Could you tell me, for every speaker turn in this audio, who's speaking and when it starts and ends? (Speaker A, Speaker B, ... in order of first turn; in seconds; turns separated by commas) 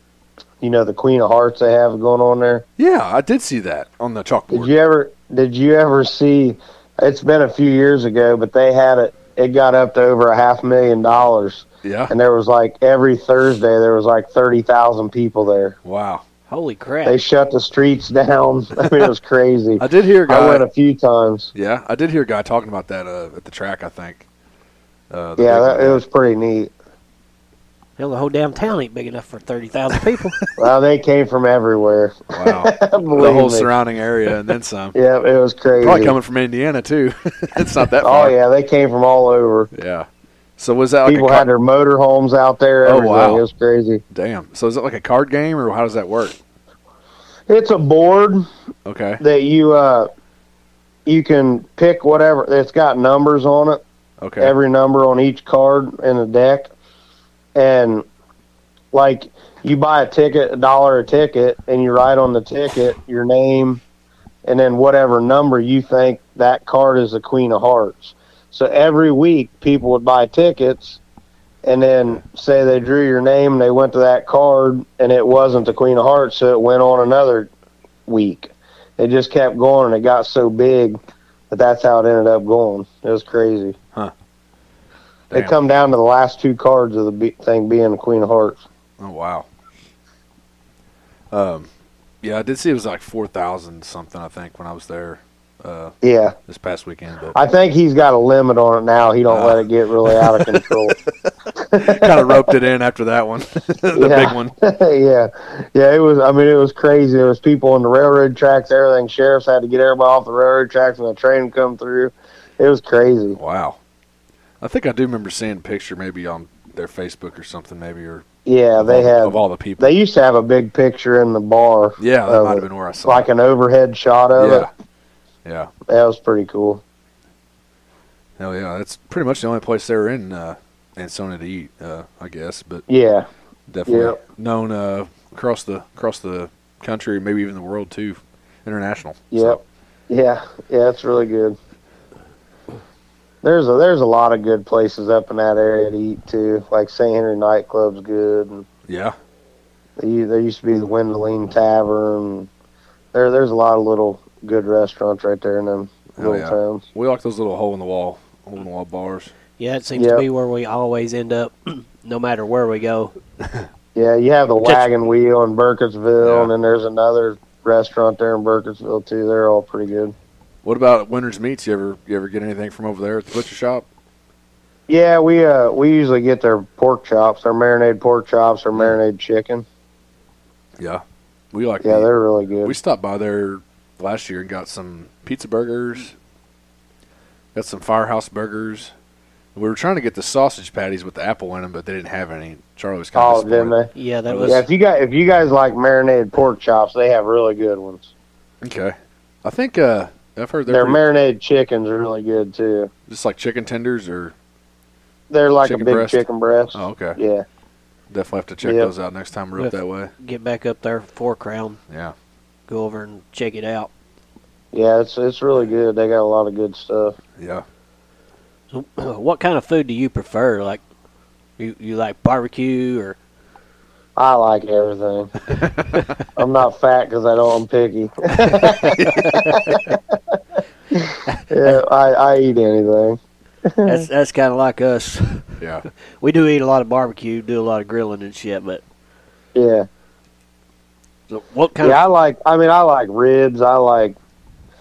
Speaker A: 0.6-2.6, Speaker B: 2.8-4.7, Speaker A: 4.5-15.8, Speaker B: 11.8-12.1, Speaker B: 15.8-16.2, Speaker C: 16.5-17.2, Speaker A: 17.1-21.5, Speaker B: 19.8-20.6, Speaker B: 21.5-24.3, Speaker B: 25.1-26.0, Speaker A: 25.4-26.7, Speaker C: 28.0-30.4, Speaker A: 30.6-33.7, Speaker B: 32.3-35.0, Speaker A: 34.9-36.2, Speaker B: 35.8-38.4, Speaker A: 38.0-39.7, Speaker B: 39.7-41.5, Speaker A: 41.1-44.0, Speaker B: 42.9-43.4, Speaker B: 44.1-46.4, Speaker A: 47.5-48.5, Speaker B: 48.9-49.2, Speaker A: 49.2-50.1, Speaker A: 51.1-53.8, Speaker B: 54.2-54.5, Speaker A: 54.4-56.7, Speaker A: 57.5-58.0, Speaker A: 58.9-63.8, Speaker A: 64.5-71.0, Speaker A: 71.6-77.5, Speaker A: 78.1-81.0, Speaker A: 81.5-83.8, Speaker A: 85.3-88.6, Speaker B: 89.0-89.5, Speaker B: 91.3-91.7, Speaker B: 92.2-96.0, Speaker A: 96.0-96.3, Speaker B: 96.5-97.3, Speaker A: 97.3-101.0, Speaker B: 99.3-100.8, Speaker A: 101.6-102.5, Speaker B: 101.8-104.5, Speaker A: 104.0-113.4, Speaker B: 113.4-113.8, Speaker B: 114.6-118.3, Speaker A: 118.5-124.7, Speaker B: 118.8-119.9, Speaker B: 122.0-123.3, Speaker B: 124.4-124.7, Speaker B: 125.5-125.7, Speaker A: 125.9-126.8, Speaker B: 128.4-132.8, Speaker A: 132.9-133.3, Speaker B: 133.7-139.6, Speaker A: 133.9-134.2, Speaker A: 139.3-141.6, Speaker A: 143.4-148.7, Speaker B: 148.9-149.2, Speaker A: 150.0-152.5, Speaker A: 153.1-156.8, Speaker B: 156.2-159.3, Speaker C: 159.6-163.1, Speaker A: 160.0-160.2, Speaker A: 163.9-170.1, Speaker B: 166.2-166.5, Speaker B: 170.6-173.9, Speaker A: 174.9-179.7, Speaker B: 181.5-182.1, Speaker A: 181.8-182.8, Speaker B: 182.6-186.1, Speaker B: 187.5-188.9, Speaker B: 189.6-193.7, Speaker A: 193.2-193.9, Speaker C: 193.9-194.7, Speaker B: 194.3-194.6, Speaker A: 194.5-198.1, Speaker B: 198.6-201.0, Speaker A: 200.7-202.9, Speaker B: 203.1-204.3, Speaker A: 205.3-207.4, Speaker B: 205.6-207.2, Speaker B: 208.1-210.1, Speaker A: 208.6-208.9, Speaker C: 209.6-211.8, Speaker B: 211.9-212.2, Speaker C: 212.7-213.9, Speaker A: 214.7-217.2, Speaker B: 217.4-217.7, Speaker C: 218.7-220.8, Speaker C: 221.6-223.2, Speaker A: 224.2-225.3, Speaker B: 225.5-226.1, Speaker A: 226.4-230.4, Speaker B: 228.8-229.8, Speaker A: 230.9-234.1, Speaker C: 233.8-235.6, Speaker B: 235.6-235.9, Speaker C: 236.2-238.8, Speaker A: 239.6-239.9, Speaker C: 241.3-242.0, Speaker A: 241.8-244.2